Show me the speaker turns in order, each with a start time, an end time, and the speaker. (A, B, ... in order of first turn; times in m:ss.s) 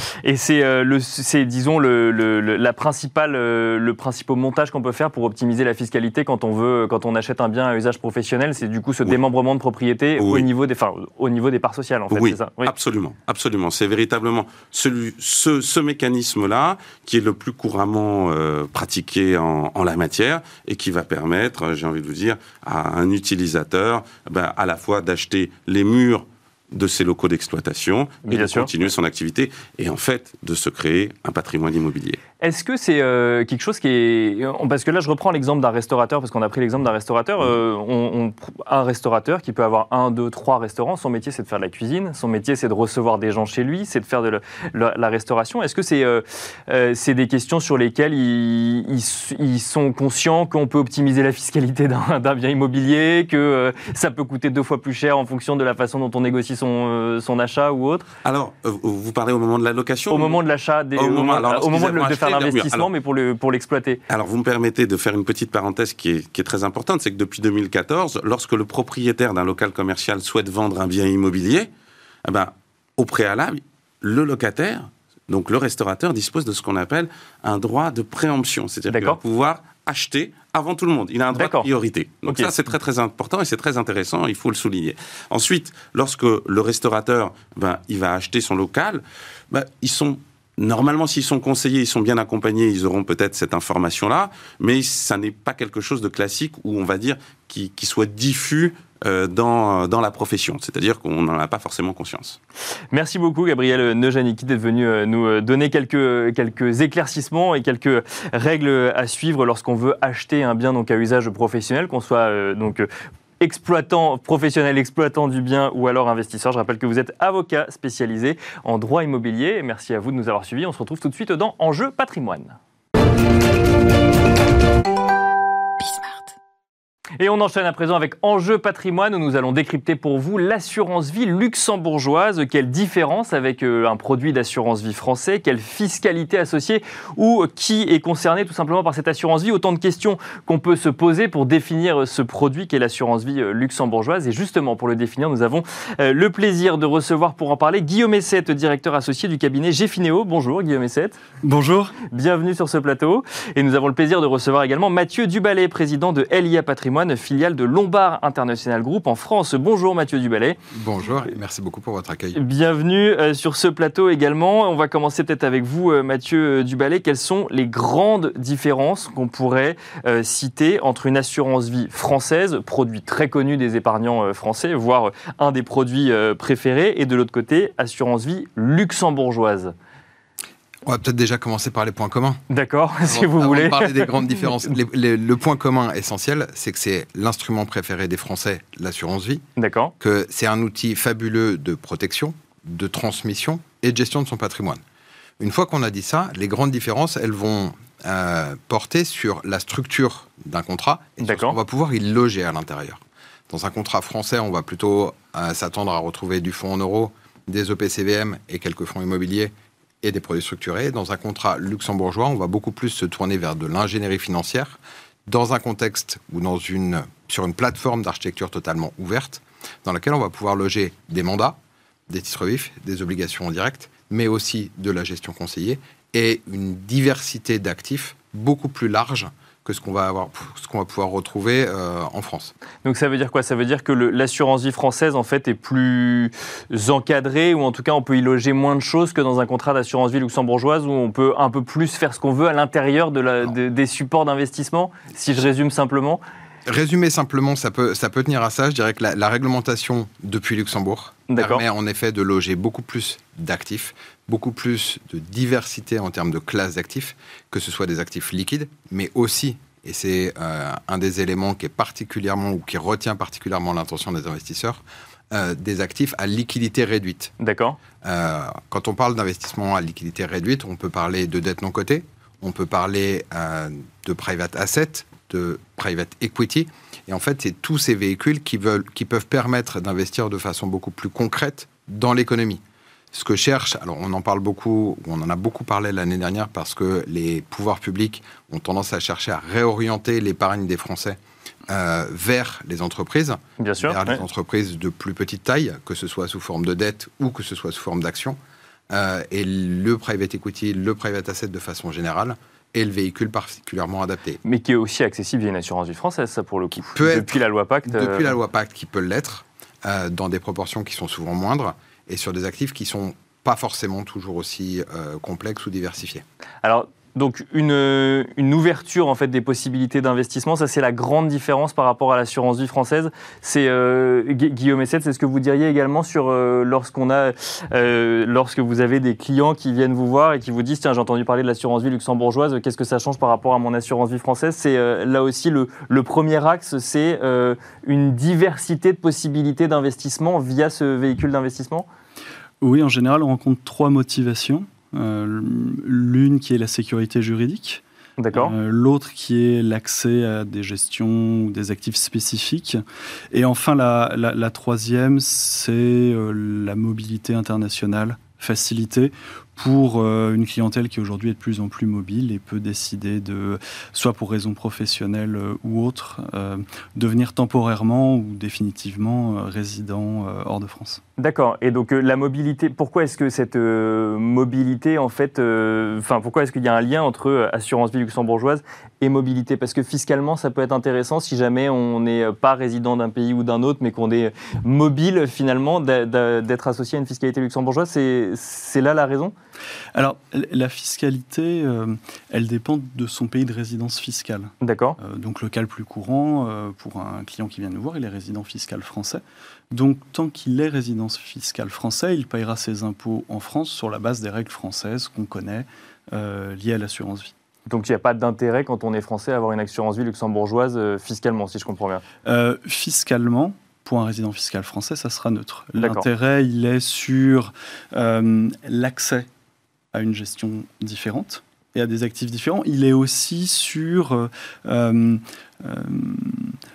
0:00.2-0:12.7 A
0:10.2-0:10.5 B
0:12.1-0:32.2 B
0:28.2-0:28.7 A
0:32.4-0:58.1 A
0:58.2-1:00.4 B
1:00.1-1:04.0 A
1:01.0-1:02.9 B
1:04.1-1:11.7 B
1:12.2-1:42.4 B
1:18.9-1:19.2 A
1:21.3-1:21.7 A
1:22.2-1:22.5 A
1:42.9-1:52.9 A
1:53.4-2:02.6 A
2:07.2-2:31.2 A
2:31.4-2:32.0 C
2:32.1-2:40.6 A
2:40.7-2:42.4 D
2:42.3-2:59.7 A
3:00.8-3:02.4 D
3:02.5-3:04.2 A
3:03.0-3:09.4 D
3:09.6-3:09.9 A
3:10.0-3:14.8 D
3:15.4-3:41.6 D
3:21.2-3:21.6 A
3:42.1-3:52.5 D
3:52.8-4:06.2 A
4:06.6-4:27.3 D
4:11.3-4:11.6 A
4:27.4-4:27.8 A
4:28.0-4:42.6 D
4:43.1-4:51.2 D
4:51.7-4:58.4 D
4:53.6-4:54.2 A
4:58.9-5:04.4 D
5:04.4-5:08.3 A
5:06.9-5:16.2 D
5:16.6-5:41.9 A
5:42.6-5:47.8 C
5:48.2-5:48.5 A
5:48.3-6:11.0 C
6:11.2-6:29.3 A
6:29.9-6:47.3 C
6:34.6-6:35.0 A
6:47.7-6:52.0 A
6:52.2-6:59.3 C
6:55.8-6:56.1 A
6:59.9-7:06.6 C